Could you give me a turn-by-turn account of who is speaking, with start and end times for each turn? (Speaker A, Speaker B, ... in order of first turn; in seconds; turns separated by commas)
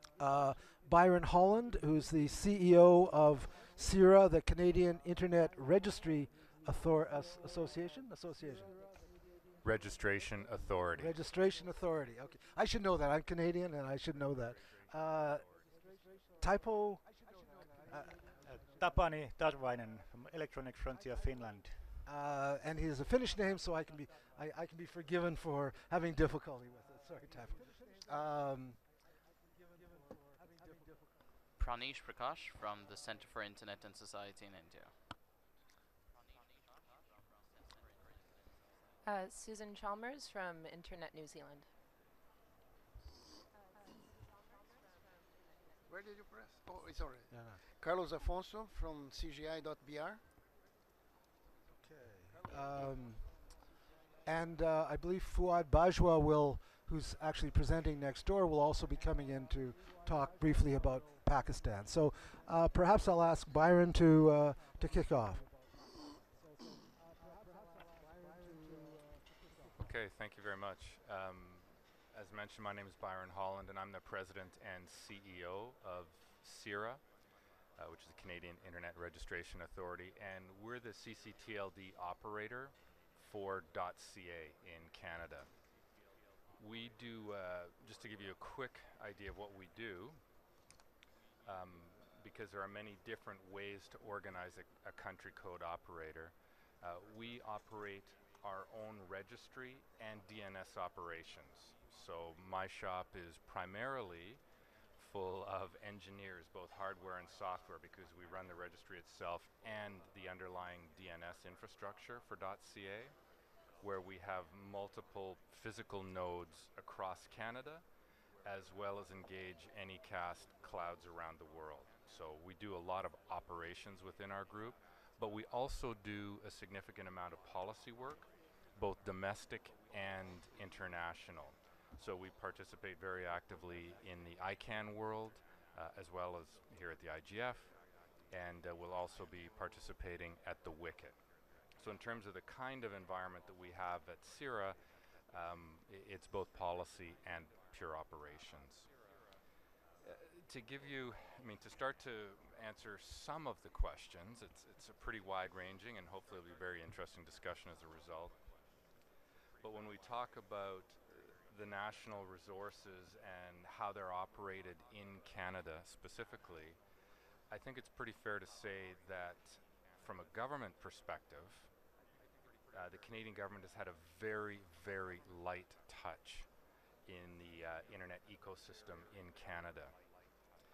Speaker A: 0.2-8.7, Speaker B: 9.6-11.1, Speaker A: 11.0-15.4, Speaker A: 16.4-17.1, Speaker A: 17.9-18.2, Speaker C: 18.4-21.9, Speaker A: 22.1-28.8, Speaker D: 31.6-34.9, Speaker E: 39.1-41.6, Speaker F: 45.9-50.2, Speaker A: 47.3-47.6, Speaker A: 51.8-53.6, Speaker A: 54.3-65.5, Speaker B: 69.8-77.0, Speaker B: 77.8-85.5, Speaker B: 86.6-90.2, Speaker B: 91.5-104.4, Speaker B: 105.0-113.1, Speaker B: 113.8-117.8, Speaker B: 118.5-128.3, Speaker B: 128.8-137.7, Speaker B: 138.3-141.2, Speaker B: 141.8-144.8, Speaker B: 145.3-148.9, Speaker B: 150.0-158.3, Speaker B: 159.6-166.8, Speaker B: 167.5-171.7, Speaker B: 172.7-176.5, Speaker B: 177.1-179.9